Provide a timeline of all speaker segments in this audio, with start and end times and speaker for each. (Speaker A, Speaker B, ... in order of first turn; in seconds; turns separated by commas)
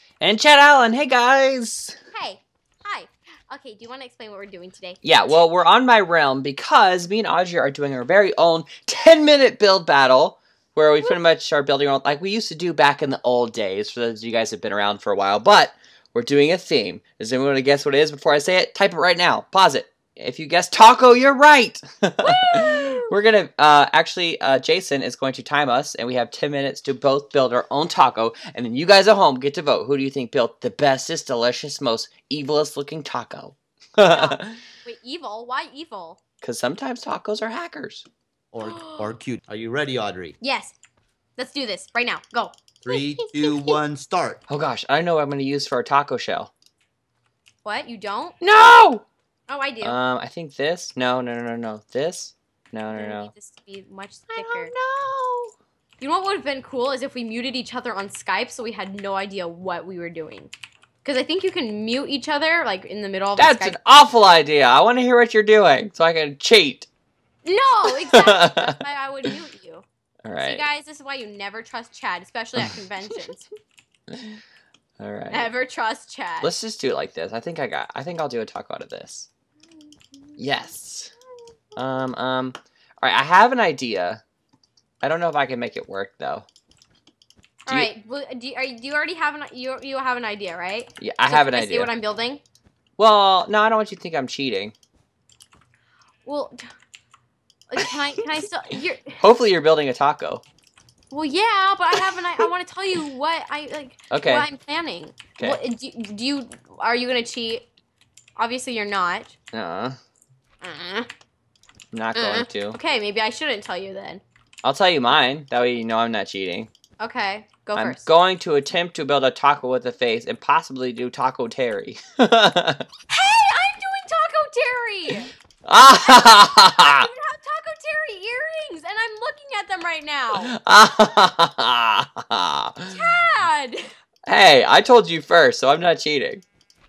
Speaker A: 0.2-2.0, Speaker B: 2.1-5.1, Speaker A: 5.0-34.6, Speaker B: 22.2-23.1, Speaker B: 34.1-36.2, Speaker A: 36.4-38.1, Speaker C: 38.5-40.4, Speaker B: 38.6-39.1, Speaker B: 40.4-40.8, Speaker B: 41.4-43.8, Speaker C: 42.8-44.4, Speaker A: 44.5-46.5, Speaker B: 47.6-48.4, Speaker A: 48.4-49.0, Speaker B: 49.5-50.0, Speaker A: 49.8-53.3, Speaker B: 52.9-54.7, Speaker A: 54.3-55.5, Speaker B: 56.0-60.5, Speaker B: 61.0-63.8, Speaker A: 63.4-66.9, Speaker B: 67.4-69.8, Speaker A: 67.8-68.8, Speaker A: 70.2-70.7, Speaker B: 70.4-73.5, Speaker A: 74.1-74.4, Speaker A: 75.0-75.5, Speaker B: 75.3-76.5, Speaker A: 76.4-79.3, Speaker B: 79.9-80.7, Speaker A: 80.4-81.1, Speaker A: 81.8-84.2, Speaker A: 85.0-86.5, Speaker B: 87.7-92.4, Speaker A: 91.0-91.9, Speaker A: 93.0-94.7, Speaker B: 96.2-96.7, Speaker B: 97.7-99.2, Speaker A: 99.2-100.4, Speaker B: 101.1-107.7, Speaker A: 104.1-104.5, Speaker B: 108.4-109.3, Speaker A: 109.5-110.0, Speaker B: 110.6-111.1, Speaker A: 111.9-112.8, Speaker B: 112.1-114.2, Speaker A: 114.6-116.7, Speaker B: 117.0-118.1, Speaker A: 117.8-122.8, Speaker B: 123.1-125.3, Speaker A: 125.7-127.1, Speaker B: 125.9-130.5, Speaker A: 130.4-133.0, Speaker B: 132.9-133.9, Speaker A: 134.3-136.4